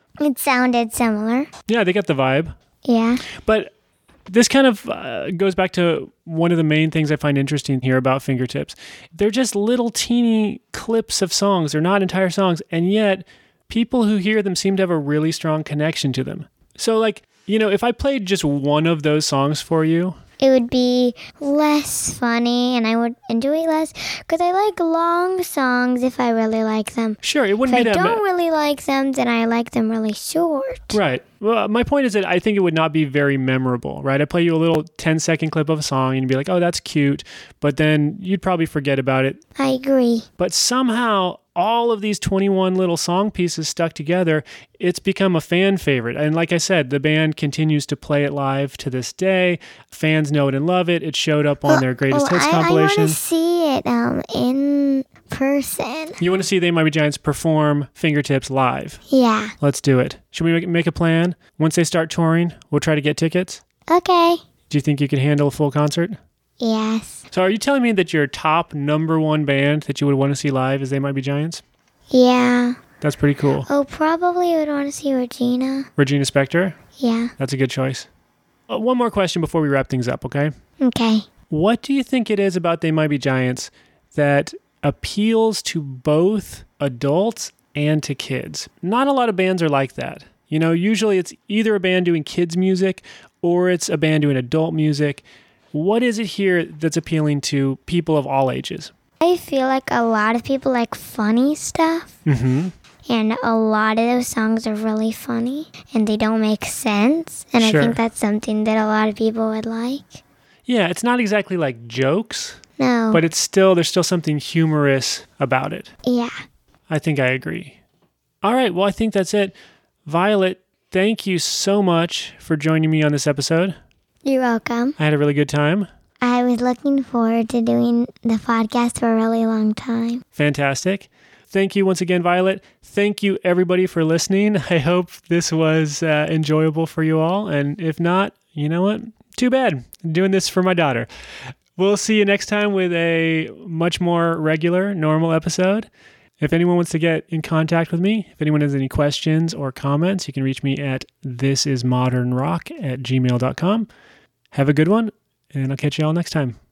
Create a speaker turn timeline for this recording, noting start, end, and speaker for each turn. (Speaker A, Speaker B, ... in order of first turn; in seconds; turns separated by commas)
Speaker A: 0.2-1.5, Speaker B: 1.7-2.5, Speaker A: 2.8-3.2, Speaker B: 3.4-3.7, Speaker B: 4.3-20.2, Speaker A: 20.4-31.0, Speaker B: 27.2-28.2, Speaker B: 30.9-39.4, Speaker A: 39.6-40.3, Speaker B: 40.4-53.2, Speaker A: 51.7-56.2, Speaker B: 56.2-59.0, Speaker A: 59.1-59.5, Speaker B: 59.6-63.6, Speaker A: 63.9-64.4, Speaker B: 64.7-66.2, Speaker A: 66.6-67.2, Speaker B: 67.3-71.6, Speaker A: 72.1-72.8, Speaker B: 73.0-73.7, Speaker A: 73.7-75.9, Speaker B: 76.0-76.8, Speaker A: 77.0-77.3, Speaker B: 77.4-78.1, Speaker B: 78.7-80.5, Speaker A: 80.8-81.3, Speaker B: 81.5-98.9, Speaker A: 99.2-102.1, Speaker B: 102.2-102.7, Speaker A: 103.1-110.2, Speaker B: 107.6-108.0, Speaker B: 110.7-112.6, Speaker A: 112.8-113.2, Speaker B: 113.1-115.9, Speaker A: 116.0-116.3, Speaker B: 116.9-117.8, Speaker B: 118.4-119.5, Speaker B: 120.0-123.8, Speaker A: 124.2-125.0, Speaker B: 125.0-125.9, Speaker A: 126.2-130.2, Speaker B: 130.3-141.1, Speaker B: 141.8-145.9, Speaker B: 146.4-153.9, Speaker B: 154.5-156.6